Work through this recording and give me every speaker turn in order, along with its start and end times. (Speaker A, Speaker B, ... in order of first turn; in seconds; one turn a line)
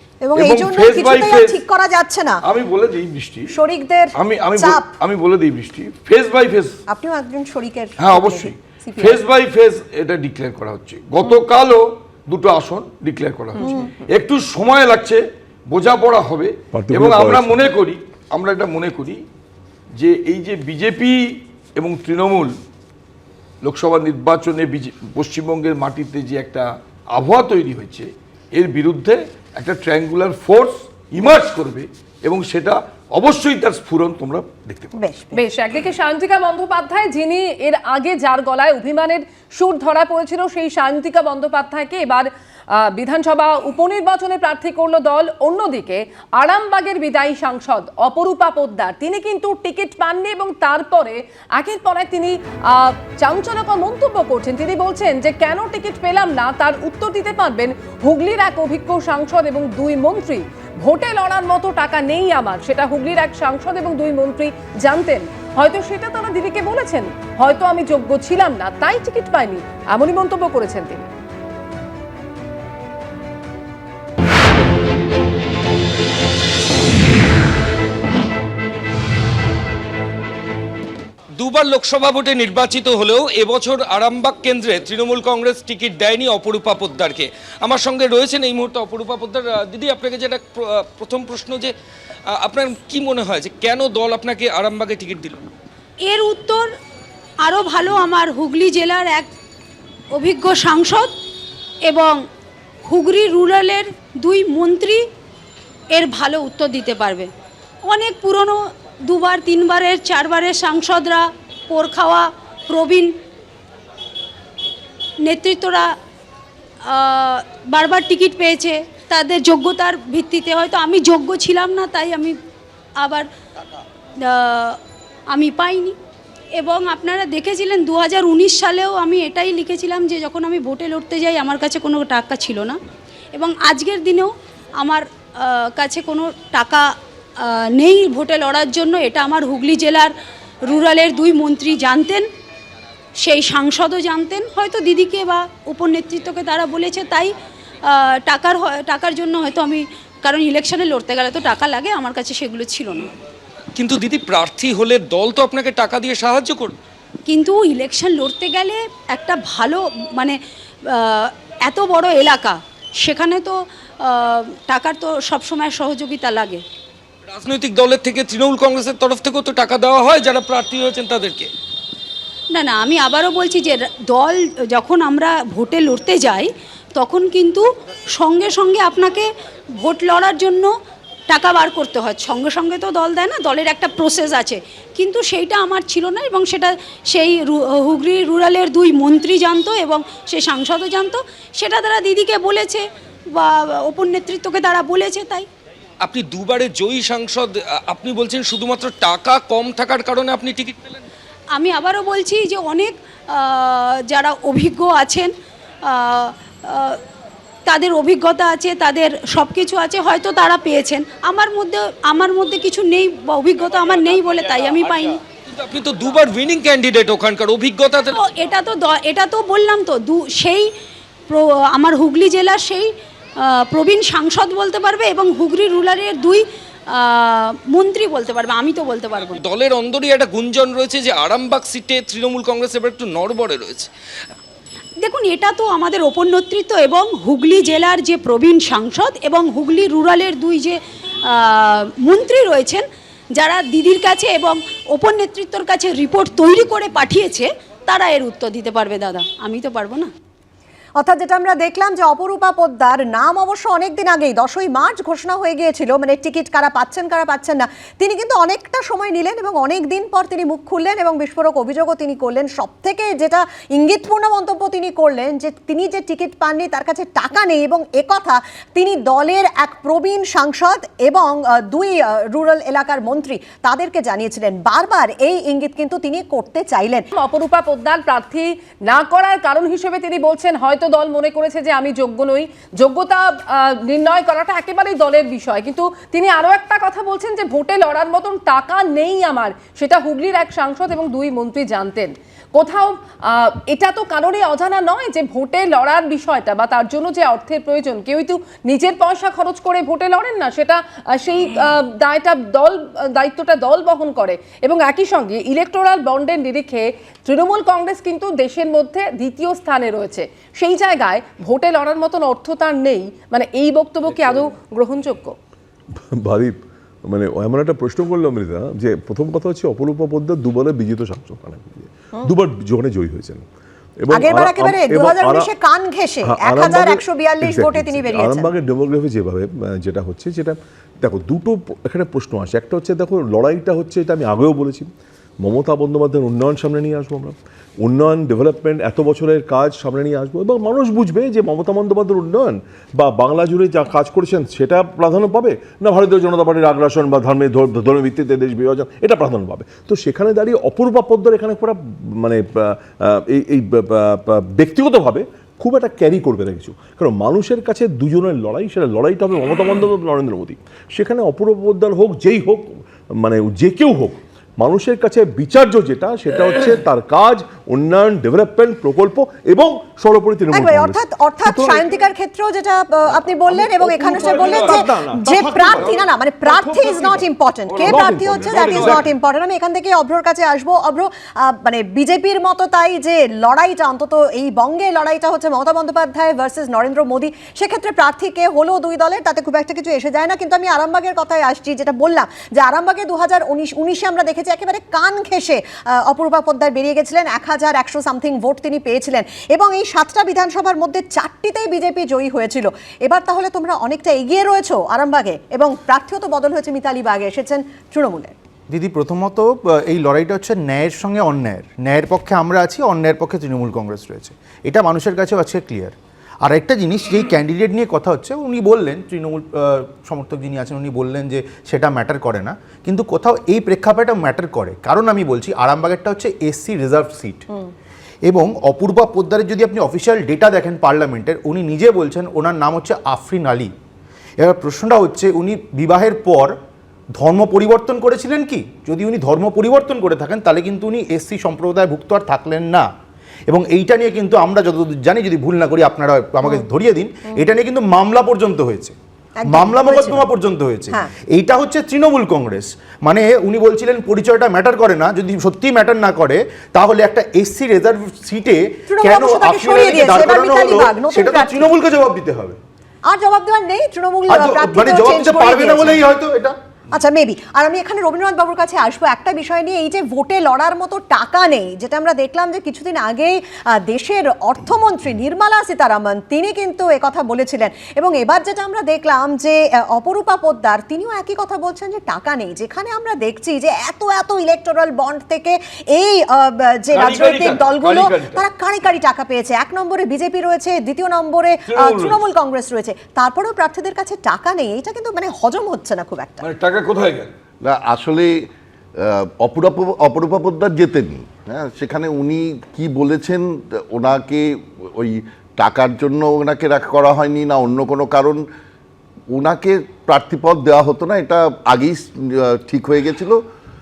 Speaker A: 0.2-2.4
Speaker B: 0.3-1.6
Speaker B: 2.4-3.5
Speaker A: 3.5-4.9
Speaker B: 4.1-6.8
Speaker A: 6.9-9.2
Speaker B: 8.0-19.2
Speaker A: 13.6-13.9
Speaker C: 16.7-17.7
Speaker B: 20.0-22.5
Speaker B: 23.6-34.9
Speaker A: 34.9-35.4
Speaker D: 35.4-42.3
Speaker D: 42.9-71.1
Speaker E: 81.4-91.7
Speaker E: 92.3-95.4
Speaker F: 96.0-96.7
Speaker F: 97.4-99.3
Speaker F: 100.1-101.1
Speaker F: 101.8-102.2
Speaker F: 102.8-105.0
Speaker F: 105.9-107.3
Speaker F: 107.8-113.1
Speaker F: 115.2-115.9
Speaker F: 116.9-122.3
Speaker F: 123.0-123.3
Speaker F: 124.2-124.8
Speaker F: 125.3-126.0
Speaker F: 126.5-132.8
Speaker F: 133.3-136.8
Speaker F: 137.4-140.1
Speaker F: 140.7-142.2
Speaker F: 143.2-147.3
Speaker F: 147.9-153.1
Speaker E: 153.8-156.7
Speaker F: 157.3-160.4
Speaker F: 160.9-163.5
Speaker F: 164.0-166.6
Speaker E: 167.3-171.5
Speaker F: 172.5-177.6
Speaker F: 178.2-179.3
Speaker F: 179.8-180.7
Speaker F: 181.3-192.8
Speaker F: 193.3-195.5
Speaker E: 196.0-200.7
Speaker F: 201.5-205.3
Speaker F: 205.9-207.0
Speaker F: 207.7-215.2
Speaker E: 214.4-214.9
Speaker E: 215.5-218.1
Speaker F: 218.1-220.7
Speaker F: 221.3-222.9
Speaker F: 223.7-226.4
Speaker F: 226.9-229.4
Speaker E: 229.4-233.9
Speaker F: 235.0-242.8
Speaker F: 243.3-250.1
Speaker A: 251.0-277.1
Speaker D: 277.1-315.3
Speaker C: 316.1-323.4
Speaker C: 324.0-325.5
Speaker A: 324.1-328.5
Speaker C: 326.2-334.9
Speaker C: 335.4-371.9
Speaker A: 370.5-408.3
Speaker C: 373.3-377.3
Speaker B: 374.1-374.8
Speaker B: 377.7-378.9
Speaker C: 377.8-379.1
Speaker G: 408.7-427.4
Speaker G: 428.3-433.7
Speaker G: 434.4-436.5
Speaker G: 437.2-442.9
Speaker G: 443.5-448.9
Speaker A: 449.4-450.2
Speaker G: 449.5-462.6
Speaker A: 458.9-461.7
Speaker A: 463.1-466.0
Speaker G: 464.3-466.5
Speaker A: 466.9-496.4
Speaker B: 486.9-488.4
Speaker B: 491.7-492.1
Speaker B: 496.4-497.3
Speaker H: 497.6-498.4
Speaker H: 499.0-508.4
Speaker H: 509.3-513.4